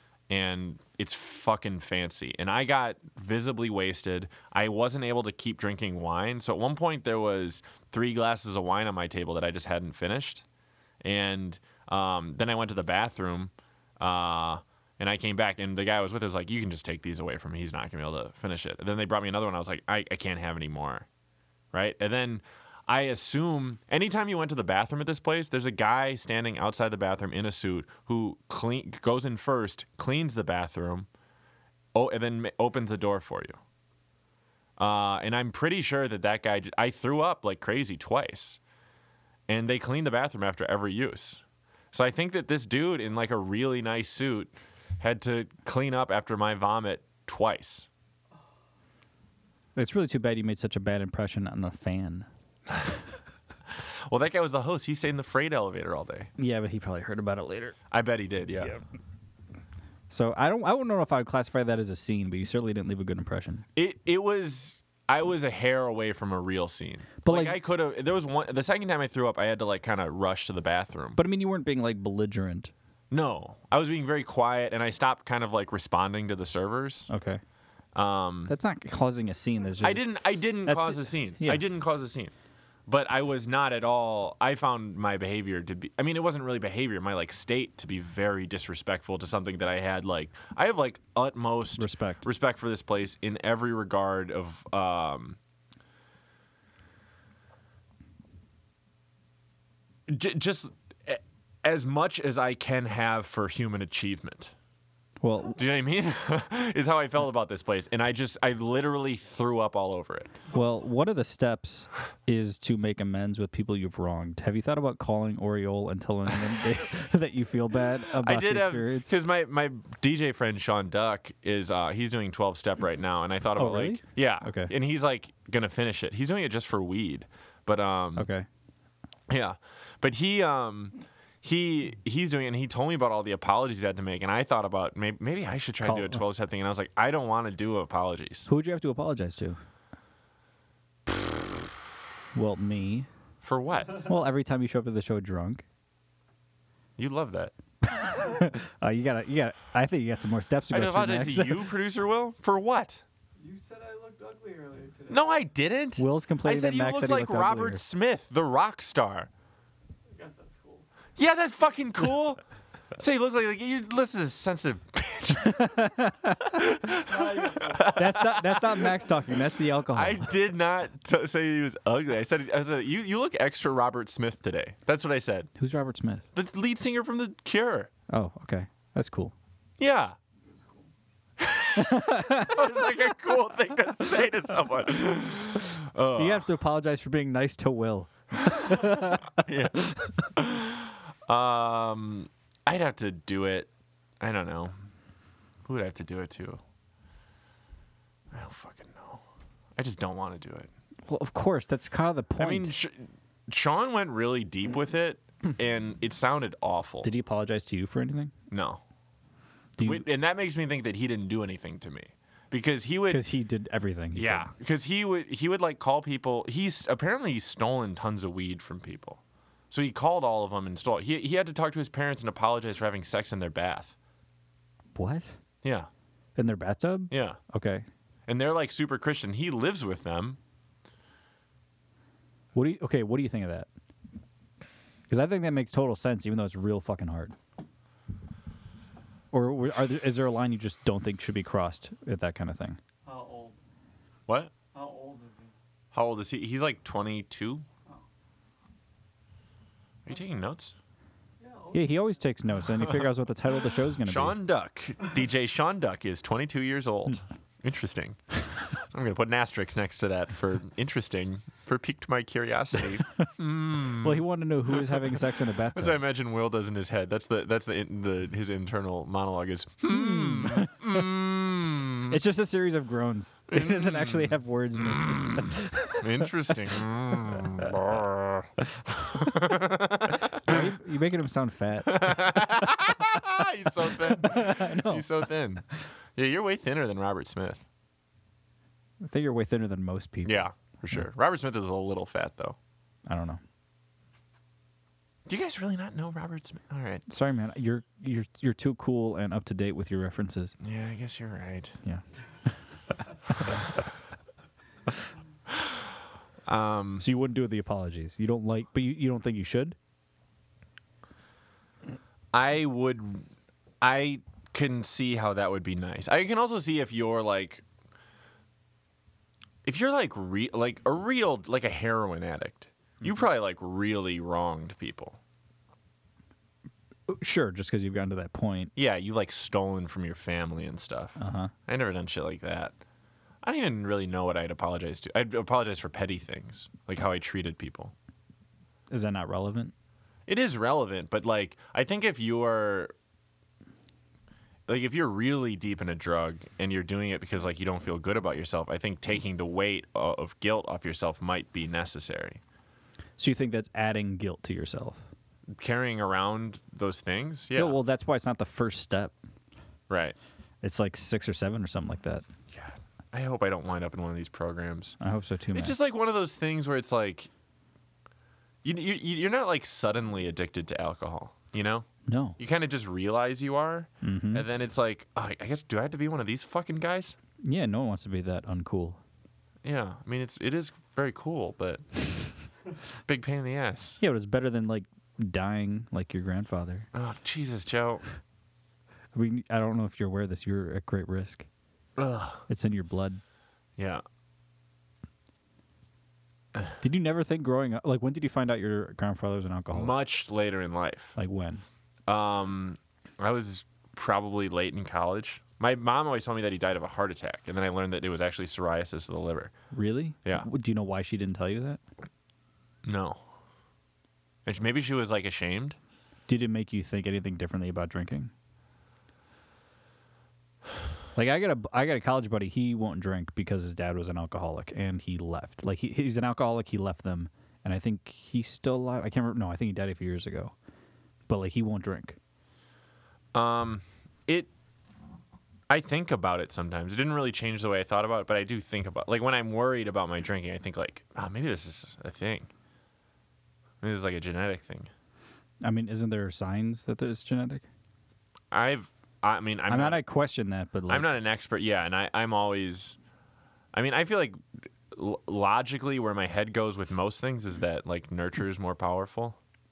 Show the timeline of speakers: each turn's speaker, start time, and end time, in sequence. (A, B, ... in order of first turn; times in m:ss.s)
0:00.3-0:10.4 A
0:11.0-0:21.1 A
0:21.7-0:31.1 A
0:31.9-0:33.6 A
0:34.8-0:38.6 A
0:39.5-0:47.9 A
0:49.8-0:52.3 B
0:53.7-0:56.3 A
0:56.4-0:57.8 B
0:57.9-0:58.8 A
1:00.1-1:03.7 B
1:03.8-1:11.2 A
1:07.2-1:07.6 B
1:11.2-1:12.7 B
1:13.1-1:17.1 A
1:17.1-1:17.4 B
1:18.0-1:18.5 A
1:18.5-1:20.0 B
1:19.8-1:22.3 A
1:20.6-1:21.6 B
1:22.9-1:35.4 A
1:31.8-1:32.2 B
1:40.1-1:44.5 A
1:45.2-1:45.6 B
1:45.6-1:50.3 A
1:50.5-1:59.1 B
1:58.1-2:08.3 A
2:03.6-2:04.7 B
2:08.2-2:08.5 B
2:09.3-2:18.5 A
2:15.8-2:16.2 B
2:18.5-2:19.6 B
2:21.1-2:21.7 A
2:22.3-2:23.1 B
2:23.4-2:24.1 A
2:24.0-2:25.6 B
2:27.0-2:27.5 A
2:27.8-2:31.6 B
2:30.7-2:33.0 A
2:33.4-2:35.4 C
2:35.1-2:39.3 A
2:36.0-2:37.8 B
2:40.1-2:40.9 C
2:41.2-2:42.4 A
2:43.0-2:45.8 A
2:45.4-2:46.8 B
2:46.5-2:48.9 A
2:46.9-2:48.9 C
2:47.9-2:50.3 B
2:49.9-2:55.5 A
2:55.6-2:56.3 B
2:56.4-2:57.9 A
2:58.1-2:59.3 B
2:59.8-3:00.2 A
3:00.5-3:00.9 C
3:01.4-3:06.5 A
3:01.8-3:02.8 B
3:06.2-3:10.3 B
3:09.4-3:13.7 A
3:14.2-3:14.7 A
3:15.6-3:16.6 A
3:18.3-3:19.2 A
3:19.8-3:20.7 A
3:21.1-3:22.7 B
3:22.4-3:27.1 A
3:27.0-3:28.3 B
3:28.5-3:28.8 A
3:29.8-3:30.0 B
3:29.8-3:33.2 A
3:33.1-3:34.5 B
3:34.2-3:44.0 A
3:45.0-3:45.4 B
3:45.6-3:45.9 A
3:46.4-3:47.8 B
3:47.1-3:47.4 A
3:48.3-3:50.4 A
3:52.6-3:53.7 B
3:55.1-3:57.4 B
3:59.3-4:02.8 B
4:03.0-4:03.6 C
4:04.3-4:04.5 A
4:04.7-4:05.6 C
4:05.9-4:07.6 A
4:10.0-4:10.8 A
4:11.4-4:12.2 C
4:11.7-4:14.4 B
4:14.0-4:18.2 A
4:18.7-4:25.2 A
4:23.9-4:26.0 B
4:25.7-4:32.2 A
4:29.9-4:31.1 B
4:32.1-4:36.3 B
4:33.5-4:40.6 A
4:39.1-4:39.4 B
4:40.1-4:43.1 B
4:41.9-4:47.6 A
4:43.8-4:45.1 B
4:49.0-4:51.0 B
4:50.2-4:52.6 A
4:53.1-4:53.4 B
4:55.3-4:57.0 A
4:57.1-5:00.6 B
5:00.6-5:01.8 A
5:03.3-5:03.6 B
5:06.5-5:07.0 A
5:07.0-5:09.8 B
5:12.3-5:13.3 A
5:13.8-5:17.6 A
5:19.6-5:25.2 A
5:27.1-5:28.7 B
5:28.8-5:32.8 A
5:31.2-5:31.5 B
5:33.4-5:37.9 A
5:38.9-5:39.7 B
5:40.3-5:42.9 A
5:44.7-5:52.4 A
5:53.2-5:55.0 B
5:55.5-5:57.8 A
5:57.6-5:59.2 B
5:59.9-6:00.2 A
6:00.6-6:02.3 B
6:02.5-6:05.0 A
6:05.0-6:05.8 B
6:05.5-6:07.3 A
6:08.6-6:11.9 A
6:12.1-6:12.4 B
6:12.4-6:17.2 A
6:14.0-6:14.5 B
6:17.4-6:19.0 B
6:19.6-6:21.8 A
6:23.1-6:24.0 A
6:24.0-6:26.9 B
6:26.9-6:28.0 A
6:29.1-6:31.5 B
6:32.0-6:32.4 A
6:32.5-6:33.2 B
6:33.8-6:34.0 A
6:36.8-6:39.9 B
6:39.7-6:41.2 A
6:41.2-6:41.6 B
6:42.1-6:49.5 A
6:49.7-6:51.8 B
6:52.8-6:53.2 A
6:54.4-6:55.8 A
6:56.3-6:58.3 B
7:01.2-7:10.5 B
7:11.3-7:12.2 B
7:13.3-7:14.5 A
7:15.7-7:22.5 A
7:23.8-7:24.9 A
7:25.6-7:27.6 B
7:28.5-7:30.0 A
7:29.7-7:31.1 B
7:30.9-7:33.0 A
7:33.7-7:39.4 A